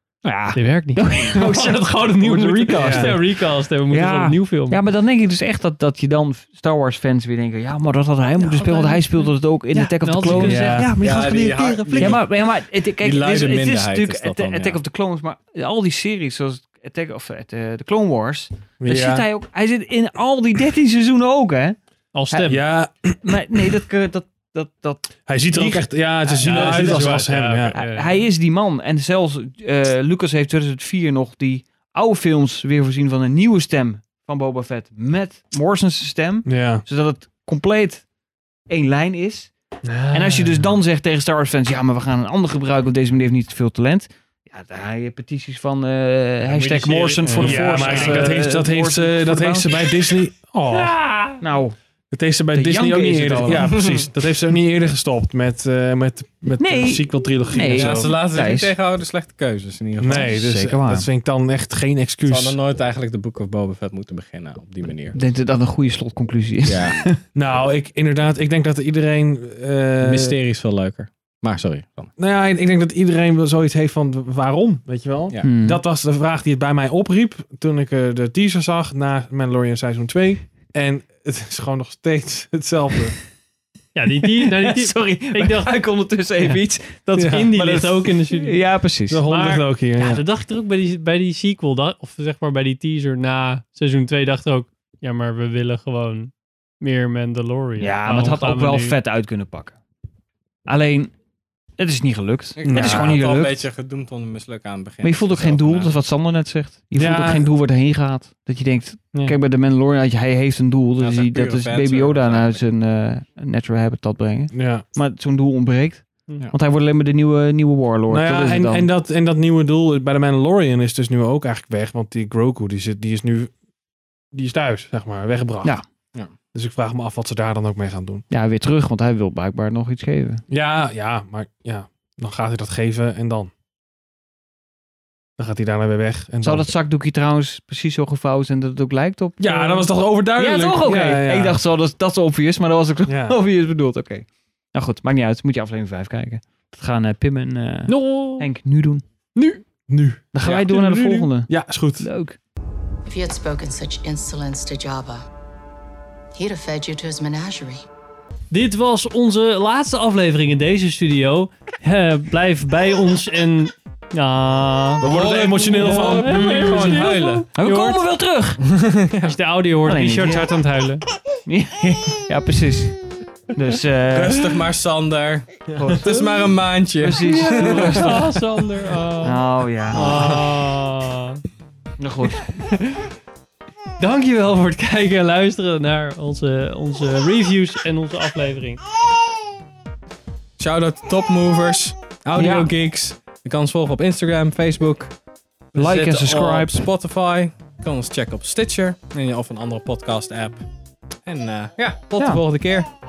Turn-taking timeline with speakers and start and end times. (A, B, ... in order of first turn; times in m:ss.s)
0:00.2-0:01.7 A
0:00.5-0:04.8 B
0:02.4-0:02.7 C
0:02.7-0:03.2 D
0:03.9-0:10.9 A
0:08.5-0:09.0 B
0:09.7-0:12.2 B
0:10.3-0:10.9 D
0:11.0-0:12.4 C
0:12.0-0:21.8 A
0:13.0-0:14.8 C
0:18.8-0:19.3 D
0:22.1-0:22.6 B
0:22.5-0:23.2 D
0:23.2-0:38.0 A
0:25.3-0:27.8 D
0:26.2-0:28.2 B
0:36.5-0:36.8 D
0:38.7-0:39.5 A
0:39.8-0:40.6 D
0:40.1-0:49.8 A
0:46.5-0:48.3 B
0:47.3-0:51.0 D
0:50.7-0:51.4 B
0:51.4-0:51.8 A
0:52.1-0:58.1 D
0:52.5-0:53.9 A
0:53.5-0:54.0 C
0:56.6-0:58.8 A
0:57.7-1:00.3 C
1:00.0-1:02.6 D
1:00.2-1:01.1 A
1:02.2-1:05.2 C
1:05.1-1:07.2 A
1:06.7-1:07.0 C
1:07.4-1:10.4 D
1:10.0-1:12.1 C
1:12.2-1:23.2 D
1:15.4-1:15.8 A
1:24.0-1:28.6 B
1:24.1-1:29.2 A
1:27.2-1:27.6 D
1:29.1-1:30.2 D
1:29.2-1:39.0 B
1:37.8-1:39.8 A
1:40.7-1:41.1 A
1:41.8-1:43.7 A
1:42.6-1:46.0 C
1:42.6-1:43.2 D
1:45.0-1:58.9 A
1:47.0-1:47.5 D
1:51.0-1:52.6 C
1:54.5-1:54.9 D
1:58.1-2:03.5 D
2:04.3-2:05.8 D
2:06.5-2:08.2 D
2:08.3-2:10.4 A
2:10.5-2:13.5 D
2:15.4-2:16.7 D
2:16.4-2:19.4 A
2:19.4-2:21.6 D
2:19.5-2:19.9 B
2:20.4-2:29.0 A
2:23.1-2:23.4 D
2:27.9-2:28.5 B
2:29.4-2:32.1 D
2:30.3-2:32.4 A
2:33.1-2:35.2 E
2:36.3-2:37.9 E
2:38.5-2:45.1 B
2:45.0-2:47.1 D
2:45.0-2:47.4 C
2:45.8-2:48.6 B
2:47.6-2:48.2 A
2:48.8-2:49.1 C
2:49.2-2:51.0 B
2:49.8-2:50.5 A
2:51.4-2:53.0 A
2:53.5-2:54.6 A
2:54.1-2:58.3 C
2:55.8-2:56.2 A
2:57.0-2:58.2 A
2:57.6-3:01.4 B
2:59.2-3:00.2 A
3:00.2-3:00.6 C
3:02.0-3:02.4 A
3:04.0-3:08.8 B
3:10.6-3:15.1 C
3:12.4-3:12.7 A
3:15.7-3:20.6 C
3:15.8-3:16.8 A
3:21.3-3:22.9 C